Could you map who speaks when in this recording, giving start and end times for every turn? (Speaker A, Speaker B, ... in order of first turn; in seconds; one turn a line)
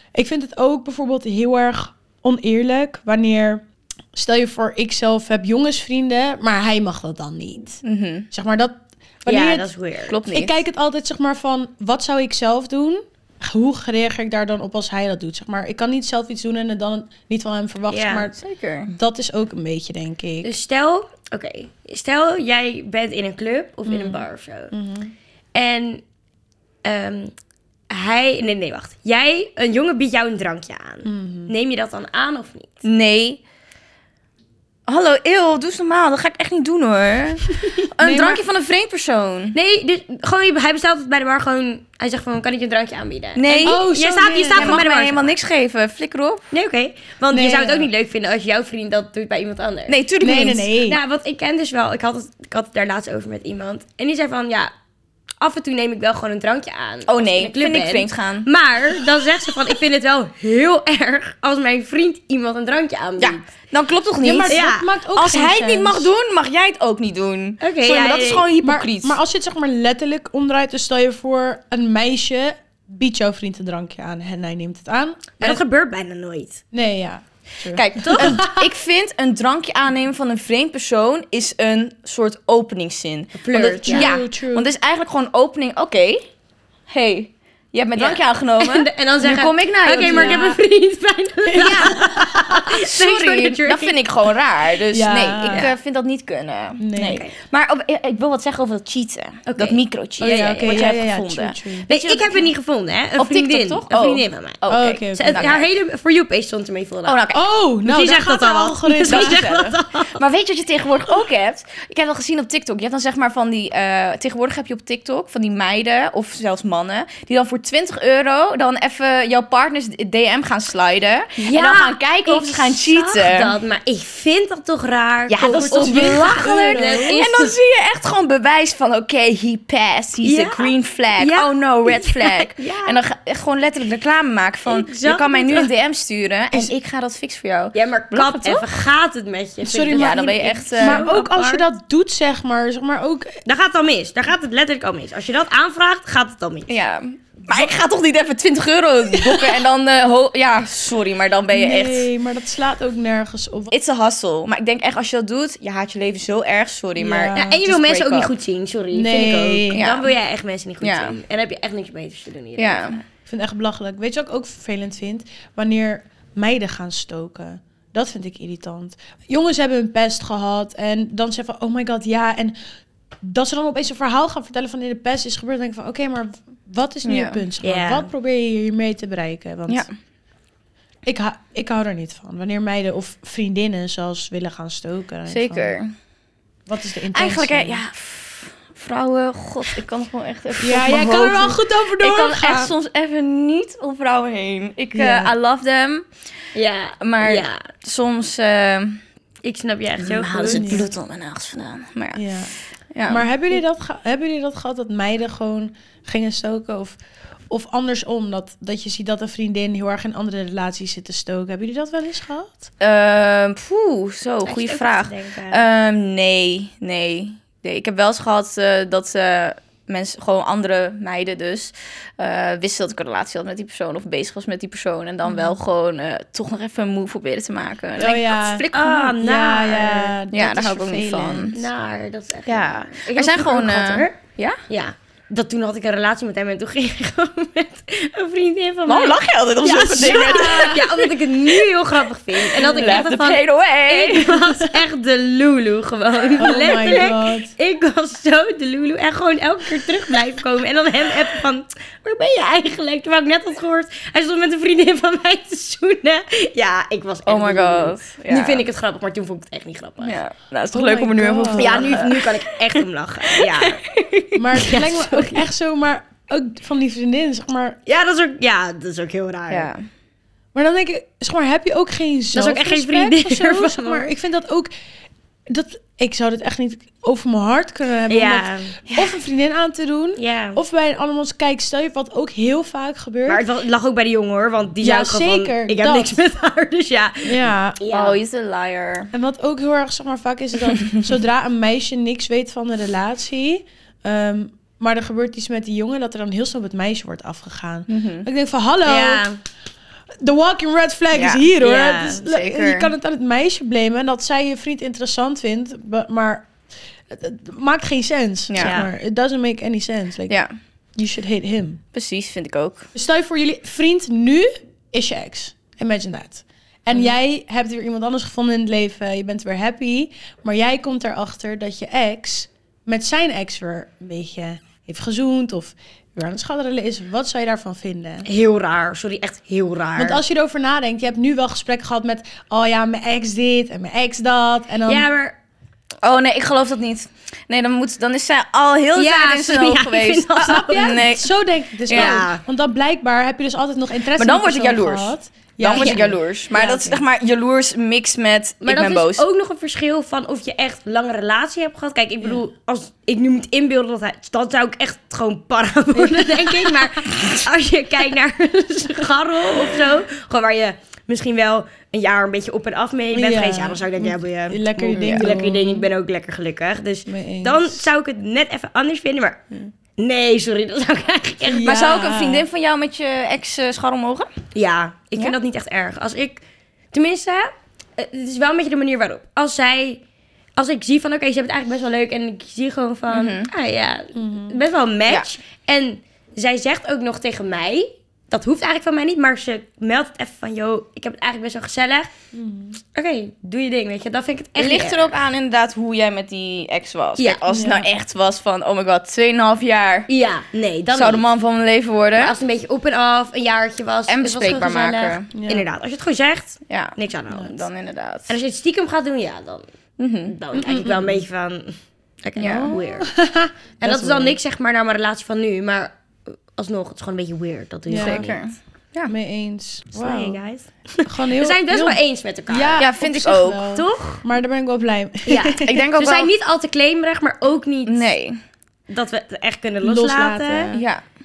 Speaker A: 0.1-9.7
Speaker B: 7.8-8.3
Speaker C: 9.3-10.2
Speaker B: 10.1-10.6
Speaker A: 10.3-18.4
Speaker C: 17.9-18.3
Speaker B: 18.4-18.9
Speaker A: 18.9-20.5
Speaker C: 20.4-24.7
Speaker A: 23.9-25.1
Speaker C: 25.6-26.0
Speaker C: 26.8-27.3
Speaker C: 27.9-32.8
Speaker A: 31.1-31.5
Speaker B: 32.8-33.4
Speaker B: 34.9-39.6
Speaker A: 38.0-38.4
Speaker C: 39.5-45.4
Speaker B: 43.4-43.9
Speaker A: 43.6-44.8
Speaker B: 44.5-46.4
Speaker C: 46.5-50.0
Speaker A: 47.3-47.9
Speaker B: 49.9-50.7
Speaker A: 50.2-51.0
Speaker C: 50.8-54.7
Speaker C: 55.4-63.5
Speaker B: 57.1-58.5
Speaker B: 63.2-69.2
Speaker A: 64.2-66.1
Speaker C: 64.5-64.9
Speaker C: 67.6-68.5
Speaker A: 68.6-75.6
Speaker C: 75.4-76.6
Speaker A: 76.7-78.7
Speaker B: 77.7-86.3
Speaker C: 78.0-78.4
Speaker C: 83.4-84.1
Speaker A: 83.8-84.7
Speaker B: 86.9-90.5
Speaker C: 88.0-94.0
Speaker A: 90.0-90.6
Speaker A: 91.5-92.6
Speaker B: 92.7-102.5
Speaker A: 94.9-95.7
Speaker A: 96.8-97.2
Speaker C: 97.0-97.3
Speaker C: 99.5-100.8
Speaker A: 100.2-101.9
Speaker C: 101.9-107.2
Speaker B: 103.2-105.7
Speaker A: 104.7-105.5
Speaker B: 107.1-107.4
Speaker A: 107.3-109.5
Speaker C: 107.8-110.2
Speaker B: 109.1-123.5
Speaker C: 121.4-127.6
Speaker B: 125.3-138.7
Speaker A: 125.5-127.2
Speaker C: 130.2-133.0
Speaker C: 134.7-135.7
Speaker C: 137.7-141.7
Speaker A: 139.6-143.4
Speaker B: 139.9-141.1
Speaker C: 143.5-146.7
Speaker B: 146.7-152.1
Speaker A: 149.1-149.6
Speaker A: 151.5-153.7
Speaker B: 153.7-158.3
Speaker A: 157.0-157.6
Speaker C: 157.3-163.0
Speaker A: 158.9-159.8
Speaker B: 159.7-160.1
Speaker B: 160.8-161.2
Speaker B: 162.6-163.0
Speaker A: 163.3-172.6
Speaker A: 173.2-179.8
Speaker B: 177.1-177.4
Speaker C: 177.6-178.1
Speaker A: 181.1-185.8
Speaker B: 185.3-185.9
Speaker A: 186.7-187.8
Speaker B: 187.1-196.1
Speaker A: 190.6-192.7
Speaker A: 194.9-195.3
Speaker C: 196.6-197.6
Speaker B: 197.0-199.0
Speaker C: 199.4-200.9
Speaker B: 200.0-203.3
Speaker A: 200.4-200.9
Speaker A: 202.2-202.5
Speaker A: 203.1-207.0
Speaker A: 207.5-212.7
Speaker B: 212.8-229.1
Speaker C: 214.5-215.6
Speaker A: 225.3-225.6
Speaker A: 228.0-231.6
Speaker C: 228.7-230.2
Speaker B: 230.3-231.6
Speaker C: 231.5-234.2
Speaker B: 232.5-234.6
Speaker C: 234.7-260.2
Speaker B: 238.9-241.1
Speaker A: 239.8-240.9
Speaker B: 242.4-244.5
Speaker A: 246.4-247.5
Speaker B: 257.2-258.7
Speaker B: 260.0-264.0
Speaker A: 260.7-262.1
Speaker C: 261.5-265.5
Speaker A: 264.4-267.8
Speaker C: 267.9-269.7
Speaker B: 269.5-269.8
Speaker A: 270.5-274.7
Speaker C: 272.3-274.1
Speaker A: 275.5-283.5
Speaker C: 278.1-278.8
Speaker B: 278.9-279.2
Speaker C: 280.2-280.6
Speaker C: 283.3-288.2
Speaker A: 284.8-286.2
Speaker A: 287.2-287.8
Speaker B: 287.9-289.1
Speaker A: 289.1-299.3
Speaker B: 297.9-298.3
Speaker C: 298.9-299.4
Speaker A: 300.2-306.5
Speaker B: 301.1-301.5
Speaker C: 301.6-302.2
Speaker B: 302.2-302.9
Speaker A: 307.1-310.4
Speaker B: 308.5-308.8
Speaker C: 308.6-308.9
Speaker A: 311.0-311.8
Speaker B: 311.9-312.9
Speaker A: 312.9-328.3
Speaker C: 328.3-330.2
Speaker A: 330.0-335.1
Speaker C: 334.9-335.4
Speaker B: 336.0-341.3
Speaker C: 339.0-341.0
Speaker A: 340.4-347.0
Speaker B: 341.9-342.2
Speaker C: 341.9-342.4
Speaker B: 344.2-349.2
Speaker C: 345.7-346.1
Speaker C: 348.6-369.4
Speaker A: 355.9-356.9
Speaker A: 363.1-365.9
Speaker B: 364.9-365.2
Speaker A: 367.1-367.9
Speaker C: 370.0-371.7
Speaker A: 371.4-372.5
Speaker B: 371.6-374.3
Speaker C: 374.6-376.4
Speaker C: 376.9-380.0
Speaker C: 380.6-392.1
Speaker B: 383.1-383.5
Speaker A: 384.2-384.6
Speaker A: 392.3-392.8
Speaker C: 392.9-395.2
Speaker B: 394.6-400.1
Speaker A: 397.5-397.9
Speaker C: 400.1-401.2
Speaker B: 400.9-402.4
Speaker C: 402.2-407.6
Speaker B: 404.1-405.3
Speaker A: 405.3-405.7
Speaker B: 406.7-408.4
Speaker C: 408.3-409.7
Speaker B: 410.0-410.3
Speaker C: 410.3-413.1
Speaker A: 410.5-411.2
Speaker B: 412.4-412.8
Speaker A: 412.4-414.4
Speaker C: 413.8-418.4
Speaker A: 417.9-418.2
Speaker B: 418.0-419.1
Speaker A: 419.1-420.4
Speaker C: 419.9-422.9
Speaker A: 421.1-425.8
Speaker B: 422.8-423.7
Speaker C: 423.7-424.2
Speaker C: 425.3-428.1
Speaker B: 425.6-426.3
Speaker B: 427.9-428.4
Speaker C: 428.9-430.7
Speaker A: 429.8-430.9
Speaker B: 430.7-431.0